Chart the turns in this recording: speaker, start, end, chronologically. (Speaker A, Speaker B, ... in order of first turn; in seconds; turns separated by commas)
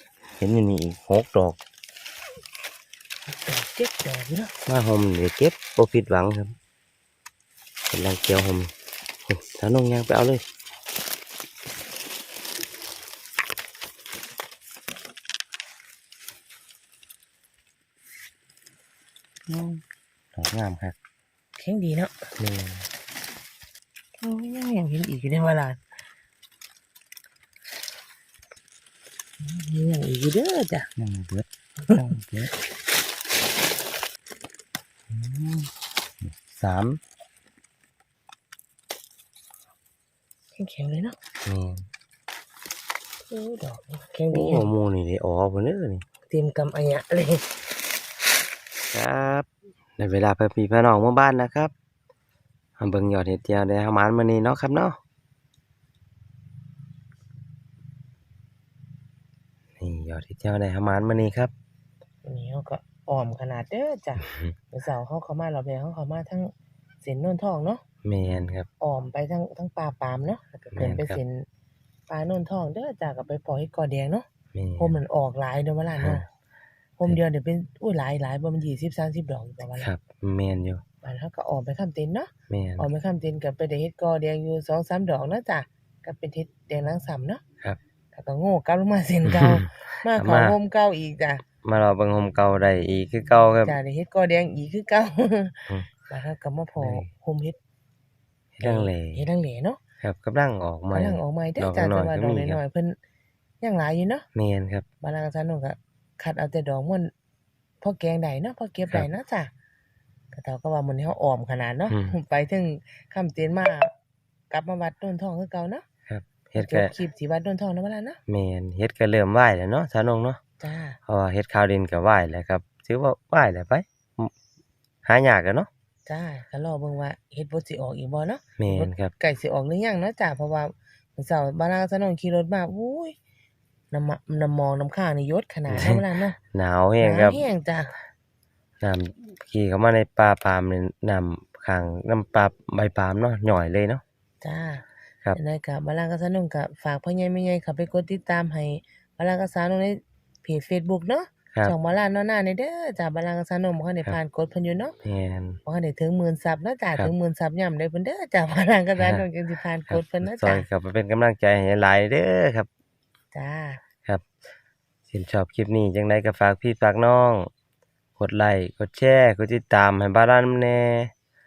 Speaker A: 0.4-1.6, Speaker B: 3.3-4.5, Speaker A: 4.7-6.5, Speaker A: 7.9-8.7, Speaker A: 9.3-10.4, Speaker A: 20.3-20.9, Speaker B: 21.6-22.1, Speaker A: 22.4-22.9, Speaker B: 24.2-25.8, Speaker B: 29.4-30.9, Speaker A: 31.0-32.5, Speaker A: 35.1-35.7, Speaker A: 36.2-37.0, Speaker B: 40.6-41.1, Speaker A: 41.4-41.9, Speaker B: 43.3-44.7, Speaker A: 44.3-46.0, Speaker B: 46.3-47.4, Speaker A: 48.9-51.7, Speaker A: 52.8-55.0, Speaker A: 59.8-61.5, Speaker B: 62.2-66.5, Speaker A: 64.2-64.5, Speaker B: 67.0-67.8, Speaker A: 68.0-68.7, Speaker B: 68.8-71.5, Speaker A: 70.7-71.2, Speaker B: 72.1-74.2, Speaker A: 74.5-75.0, Speaker B: 74.8-76.2, Speaker A: 76.0-76.2, Speaker B: 77.0-79.9, Speaker A: 79.8-80.8, Speaker B: 81.0-87.4, Speaker A: 82.5-82.9, Speaker B: 88.1-91.4, Speaker A: 89.2-90.6, Speaker A: 91.6-93.8, Speaker B: 93.6-97.6, Speaker A: 96.8-97.1, Speaker A: 98.6-99.2, Speaker B: 98.6-99.8, Speaker A: 100.0-102.6, Speaker B: 100.9-103.0, Speaker B: 103.6-104.2, Speaker A: 104.3-104.8, Speaker B: 105.0-107.1, Speaker B: 107.8-109.5, Speaker B: 110.3-113.9, Speaker A: 111.9-112.2, Speaker B: 114.5-115.8, Speaker A: 116.1-116.9, Speaker B: 116.6-118.2, Speaker A: 118.3-120.4, Speaker B: 120.6-121.0, Speaker A: 121.1-124.3, Speaker A: 125.0-125.7, Speaker B: 126.0-133.1, Speaker A: 128.6-129.1, Speaker B: 133.9-136.4, Speaker A: 135.7-137.4, Speaker B: 137.0-137.9, Speaker A: 138.8-144.0, Speaker B: 144.4-154.9, Speaker A: 155.0-155.6, Speaker B: 155.7-160.7, Speaker A: 158.9-159.3, Speaker A: 159.9-162.7, Speaker B: 163.3-163.8, Speaker A: 165.1-167.5, Speaker A: 168.2-171.1